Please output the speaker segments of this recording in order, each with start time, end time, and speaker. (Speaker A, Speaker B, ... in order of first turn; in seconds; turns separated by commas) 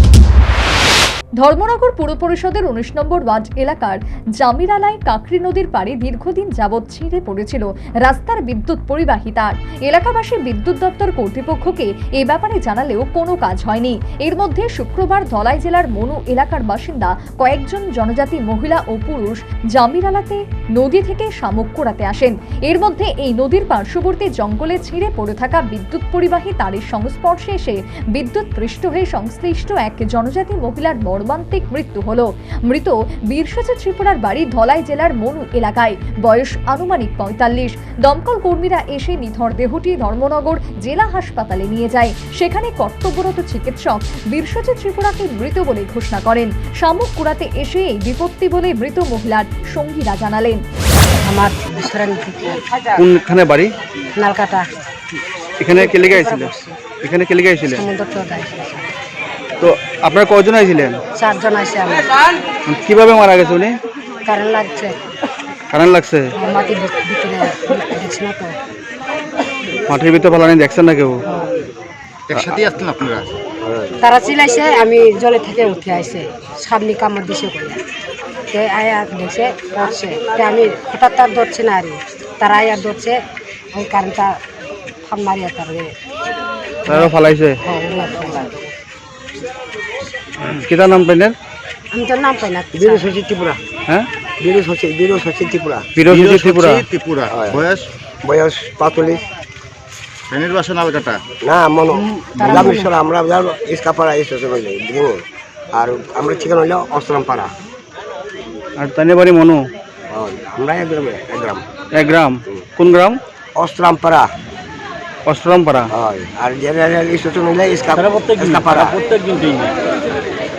Speaker A: 1.4-50.6, Speaker B: 51.3-52.6, Speaker C: 53.0-53.7, Speaker B: 54.1-54.7, Speaker C: 55.6-57.8, Speaker B: 55.7-56.8, Speaker B: 57.6-58.9, Speaker C: 59.6-61.0, Speaker B: 61.1-62.1, Speaker C: 62.7-63.7, Speaker B: 64.2-65.0, Speaker C: 65.7-66.3, Speaker B: 66.4-68.6, Speaker C: 69.9-71.2, Speaker D: 72.3-73.3, Speaker E: 73.6-74.0, Speaker B: 74.0-77.8, Speaker B: 78.5-83.2, Speaker B: 83.7-84.4, Speaker B: 85.0-85.9, Speaker B: 86.9-88.6, Speaker C: 86.9-87.6, Speaker C: 90.5-91.3, Speaker B: 91.9-93.1, Speaker E: 92.7-93.6, Speaker E: 94.4-95.9, Speaker C: 96.0-96.9, Speaker D: 96.1-97.9, Speaker E: 97.3-97.7, Speaker E: 98.2-99.2, Speaker D: 100.3-101.2, Speaker E: 101.4-105.2, Speaker B: 102.0-102.9, Speaker E: 105.8-107.5, Speaker C: 108.8-109.7, Speaker E: 110.1-111.6, Speaker C: 112.0-113.2, Speaker E: 113.6-114.3, Speaker C: 115.3-115.9, Speaker E: 115.9-119.0, Speaker C: 118.1-119.7